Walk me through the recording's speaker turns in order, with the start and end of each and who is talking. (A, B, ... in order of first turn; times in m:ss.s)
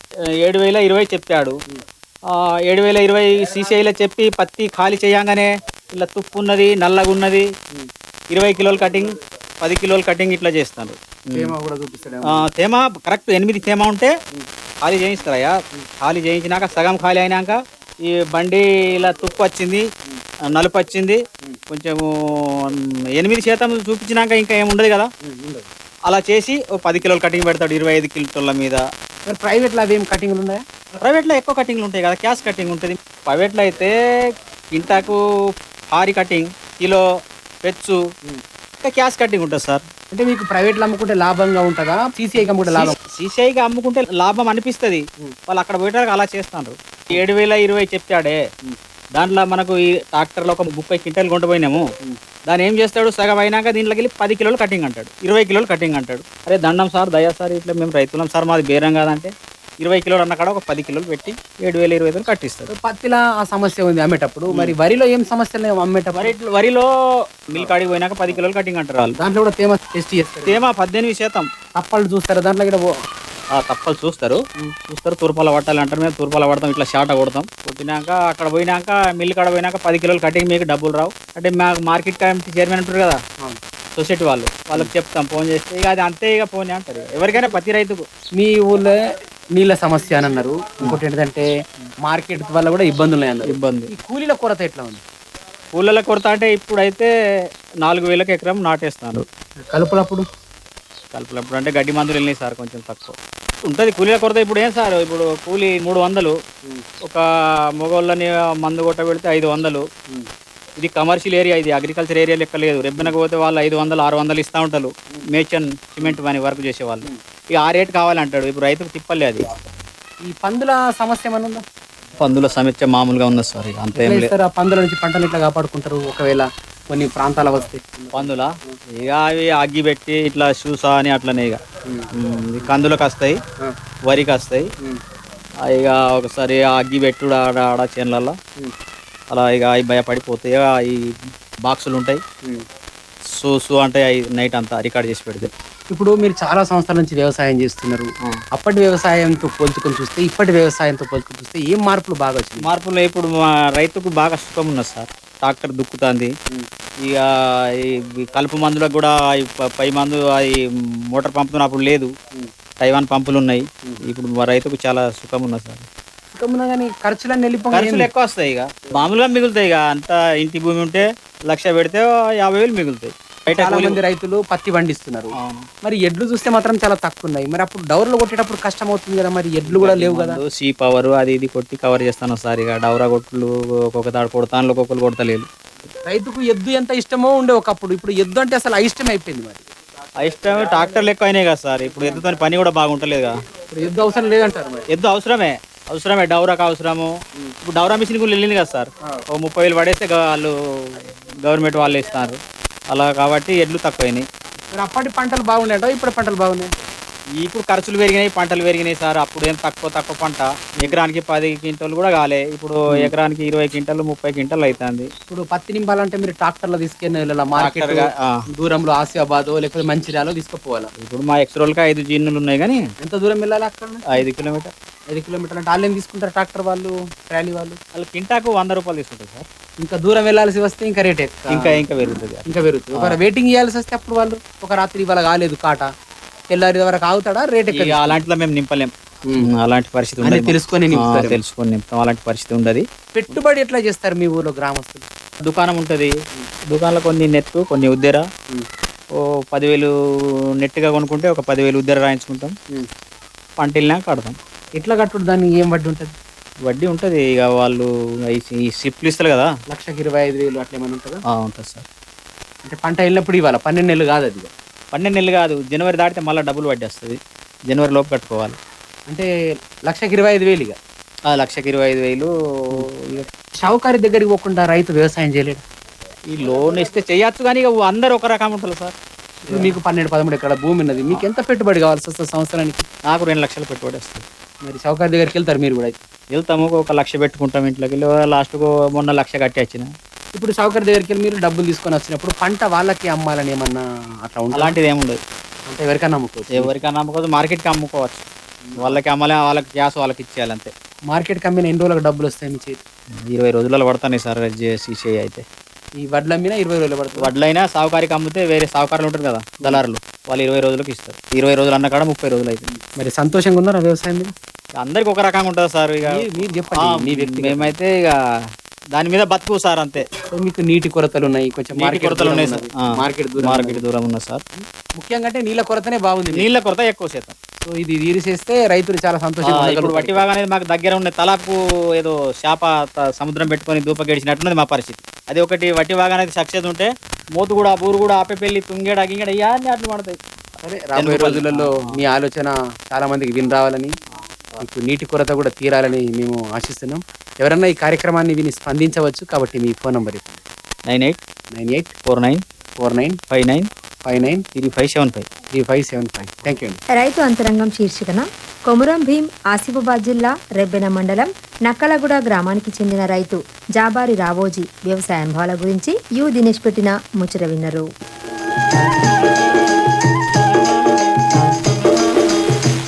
0:00.4-0:01.6 A
0:02.3-0:07.4 A
0:08.3-0:11.5 A
0:11.3-0:12.5 B
0:12.3-0:14.1 A
0:14.8-0:19.8 A
0:20.5-0:25.1 A
0:25.2-0:25.7 B
0:26.1-0:28.8 A
0:29.2-0:30.6 B
0:31.0-0:33.9 A
0:34.7-0:35.2 A
0:35.9-0:37.0 A
0:37.6-0:38.0 A
0:38.8-0:39.8 A
0:40.1-0:43.0 B
0:42.7-0:48.4 A
0:49.1-0:51.8 A
0:52.5-1:02.7 A
1:02.7-1:06.3 B
1:06.1-1:06.9 A
1:07.5-1:09.1 A
1:09.2-1:10.6 B
1:10.5-1:11.5 A
1:11.8-1:12.8 B
1:13.5-1:23.2 A
1:23.9-1:28.0 A
1:28.4-1:28.9 B
1:29.5-1:31.4 B
1:32.0-1:35.0 B
1:33.5-1:33.9 A
1:35.7-1:37.1 A
1:37.8-1:39.2 A
1:39.7-1:40.2 B
1:41.1-1:43.2 A
1:43.7-1:46.4 A
1:47.8-1:49.8 A
1:50.8-1:59.4 A
2:00.2-2:01.6 B
2:02.2-2:04.3 A
2:04.0-2:08.8 B
2:08.1-2:11.6 A
2:12.1-2:13.4 A
2:14.1-2:14.7 A
2:15.7-2:18.4 A
2:19.3-2:22.2 A
2:23.4-2:25.5 A
2:25.9-2:32.7 B
2:32.6-2:36.3 A
2:37.0-2:42.1 A
2:42.8-2:45.9 A
2:46.3-2:48.1 B
2:47.7-2:54.0 A
2:53.5-3:00.4 B
2:55.4-2:55.7 A
2:59.7-3:05.5 A
3:06.0-3:09.6 B
3:10.2-3:13.3 A
3:13.7-3:14.8 B
3:14.9-3:22.4 A
3:22.9-3:24.2 A
3:24.7-3:26.7 B
3:27.4-3:35.1 A
3:35.3-3:40.9 B
3:37.6-3:38.4 A
3:41.0-3:42.8 A
3:43.0-3:44.0 B
3:44.1-3:44.7 A
3:45.1-3:47.8 B
3:47.9-3:49.4 A
3:49.8-3:55.9 B
3:51.5-3:52.4 A
3:56.5-3:58.2 B
3:57.7-4:02.8 A
4:00.2-4:01.4 B
4:03.1-4:05.1 B
4:05.4-4:06.1 A
4:06.6-4:08.2 A
4:09.2-4:09.9 A
4:10.6-4:12.5 A
4:13.6-4:14.4 A
4:14.8-4:16.1 B
4:16.6-4:19.5 A
4:19.7-4:21.2 B
4:21.3-4:21.8 A
4:22.6-4:24.5 B
4:24.9-4:27.2 A
4:27.7-4:28.6 A
4:29.9-4:30.8 B
4:31.3-4:33.3 A
4:33.6-4:35.6 B
4:36.3-4:38.9 A
4:39.4-4:42.8 B
4:39.5-4:39.8 A
4:43.1-4:44.2 A
4:44.6-4:45.9 B
4:46.3-4:49.9 A
4:50.3-4:54.8 B
4:54.5-4:55.2 A
4:55.7-4:56.7 B
4:56.5-4:58.2 A
4:58.6-4:59.0 B
4:58.8-5:00.7 A
5:01.1-5:02.8 B
5:03.3-5:05.4 A
5:06.0-5:07.3 B
5:07.2-5:12.7 A
5:12.7-5:14.3 B
5:14.8-5:16.3 A
5:16.0-5:17.7 B
5:16.8-5:18.2 A
5:18.9-5:20.0 A
5:20.3-5:23.8 B
5:21.8-5:22.8 A
5:23.4-5:24.4 A
5:24.6-5:26.5 B
5:26.3-5:27.4 A
5:27.6-5:30.2 B
5:29.4-5:40.2 A
5:40.6-5:43.9 B
5:41.0-5:41.9 A
5:44.6-5:50.4 B
5:50.9-5:51.2 A
5:51.5-5:51.9 B
5:52.0-5:52.4 A
5:52.8-5:53.2 B
5:53.3-5:53.7 A
5:54.0-5:54.4 B
5:54.5-5:55.3 A
5:55.4-5:56.8 B
5:57.0-6:07.8 C